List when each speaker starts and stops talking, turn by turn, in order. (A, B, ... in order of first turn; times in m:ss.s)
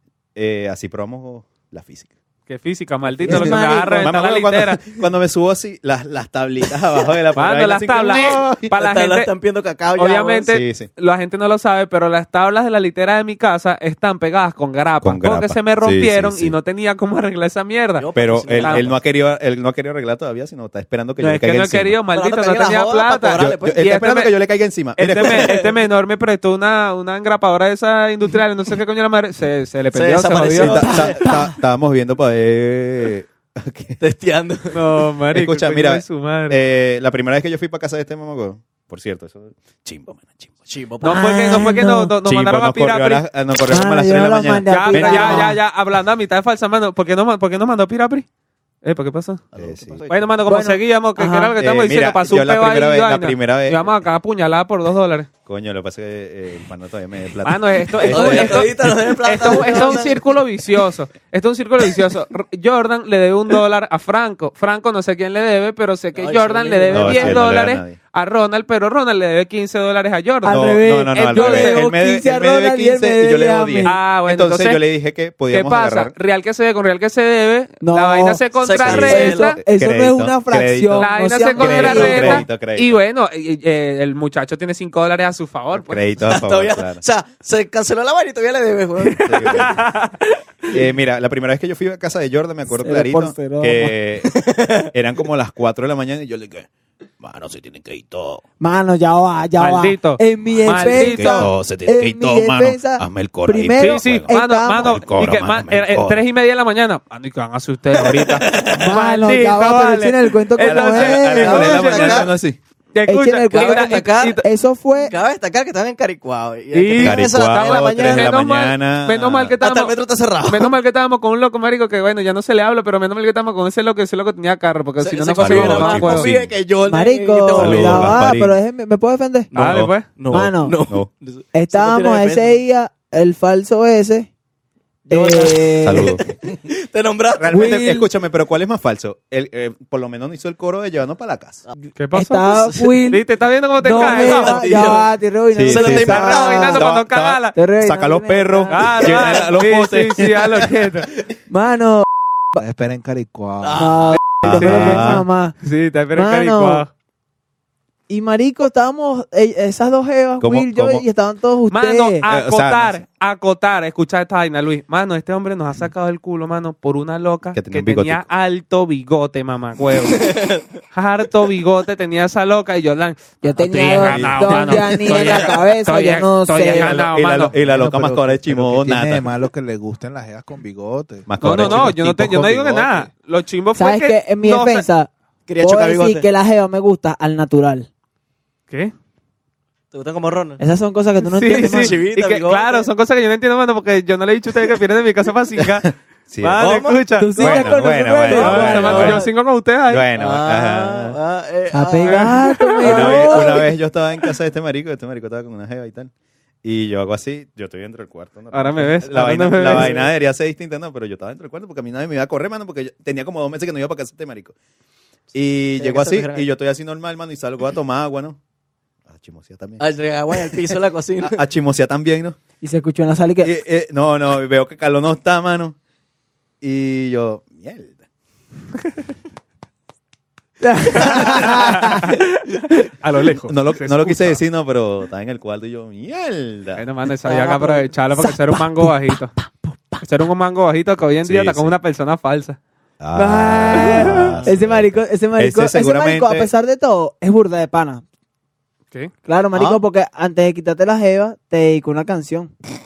0:00.3-0:02.1 A
0:02.5-0:04.8 B
0:03.2-0:08.7 A
0:03.3-0:04.1 C
0:07.4-0:09.3 B
0:08.7-0:10.5 D
0:10.0-0:18.8 B
0:10.5-0:10.9 A
0:15.0-0:16.6 A
0:18.0-0:19.0 D
0:18.1-0:22.0 A
0:21.2-0:24.3 B
0:22.1-0:23.9 D
0:23.4-0:25.5 A
0:25.0-0:30.9 B
0:25.2-0:25.7 D
0:29.9-0:31.3 D
0:30.5-0:34.0 A
0:30.8-0:31.5 C
0:34.0-0:34.8 D
0:34.7-0:36.6 B
0:35.3-0:40.5 A
0:40.6-0:41.5 D
0:41.0-0:43.2 B
0:41.0-0:42.1 C
0:42.2-0:45.6 A
0:43.7-0:45.6 C
0:44.7-0:48.2 B
0:48.8-0:49.4 B
0:49.5-0:50.1 A
0:49.6-0:50.1 E
0:50.1-0:55.3 B
0:50.4-0:51.5 C
0:51.6-0:53.9 A
0:55.4-0:58.7 A
0:57.4-1:11.8 B
0:58.0-1:00.4 D
1:06.2-1:07.5 D
1:06.9-1:08.0 A
1:10.4-1:14.0 C
1:10.5-1:16.1 A
1:13.8-1:14.8 B
1:15.5-1:19.6 B
1:17.8-1:18.4 C
1:18.6-1:19.6 D
1:18.8-1:23.0 A
1:19.0-1:22.4 C
1:21.0-1:26.1 B
1:25.7-1:27.0 A
1:26.2-1:29.8 D
1:29.2-1:29.9 A
1:29.4-1:30.2 B
1:30.7-1:34.4 A
1:32.7-1:33.9 C
1:34.3-1:34.9 D
1:34.9-1:36.7 A
1:37.2-1:38.4 A
1:38.6-1:45.0 C
1:39.6-1:41.5 B
1:40.6-1:46.2 A
1:43.8-1:52.3 B
1:47.9-1:48.8 D
1:48.7-1:51.7 C
1:50.6-1:52.6 A
1:51.4-1:52.3 D
1:52.9-1:54.4 B
1:53.0-1:55.1 C
1:53.5-1:54.4 D
1:55.0-1:58.3 D
1:56.7-2:06.3 B
1:57.0-1:59.6 A
1:59.6-2:00.7 D
2:05.0-2:08.2 D
2:05.4-2:06.5 A
2:06.9-2:09.5 C
2:07.5-2:08.6 A
2:09.5-2:12.6 D
2:09.5-2:10.1 B
2:09.6-2:11.1 A
2:10.3-2:10.8 C
2:11.5-2:14.3 C
2:15.1-2:16.1 C
2:15.1-2:17.7 D
2:15.8-2:16.6 A
2:17.4-2:21.6 A
2:17.5-2:18.1 C
2:22.0-2:25.0 B
2:22.1-2:23.2 C
2:22.6-2:23.0 D
2:23.8-2:26.8 C
2:23.9-2:25.1 D
2:25.5-2:30.7 A
2:25.6-2:26.9 D
2:26.0-2:27.6 B
2:27.6-2:29.0 C
2:28.7-2:31.1 B
2:31.5-2:32.6 C
2:32.6-2:34.0 E
2:33.6-2:34.2 D
2:33.7-2:35.5 C
2:34.4-2:35.2 A
2:34.5-2:36.9 B
2:36.1-2:36.8 C
2:38.1-2:42.2 C
2:40.4-2:41.0 A
2:41.7-2:50.3 B
2:42.2-2:43.0 A
2:47.5-2:48.2 A
2:50.1-2:50.6 D
2:50.9-2:57.5 B
2:53.4-2:56.9 C
2:54.0-2:54.9 A
2:56.7-2:59.3 A
2:57.6-3:02.0 E
3:01.3-3:03.0 A
3:01.4-3:04.8 B
3:03.8-3:07.9 C
3:05.5-3:06.3 D
3:09.9-3:10.6 D
3:10.6-3:12.0 C
3:11.3-3:17.3 B
3:11.5-3:12.9 D
3:16.3-3:16.8 A
3:16.6-3:17.7 D
3:17.2-3:19.3 C
3:17.4-3:19.2 A
3:18.3-3:20.1 B
3:18.4-3:19.2 D
3:19.9-3:21.2 A
3:20.2-3:23.6 D
3:21.7-3:23.6 C
3:22.0-3:22.3 B
3:22.8-3:26.1 A
3:22.9-3:23.1 B
3:26.6-3:34.5 A
3:28.5-3:30.0 B
3:29.7-3:30.0 D
3:35.3-3:38.4 A
3:35.8-3:36.4 D
3:39.1-3:40.6 A
3:39.8-3:41.4 D
3:41.2-3:42.4 A
3:42.6-3:43.5 C
3:43.4-3:45.8 A
3:46.6-3:48.0 A
3:50.6-3:52.1 C
3:51.2-3:54.4 B
3:53.4-3:56.8 A
3:56.8-3:59.3 B
3:57.2-4:00.0 C
4:00.0-4:02.6 B
4:01.2-4:01.7 A
4:03.0-4:06.5 A
4:03.1-4:08.0 C
4:03.8-4:04.4 B
4:09.2-4:12.5 C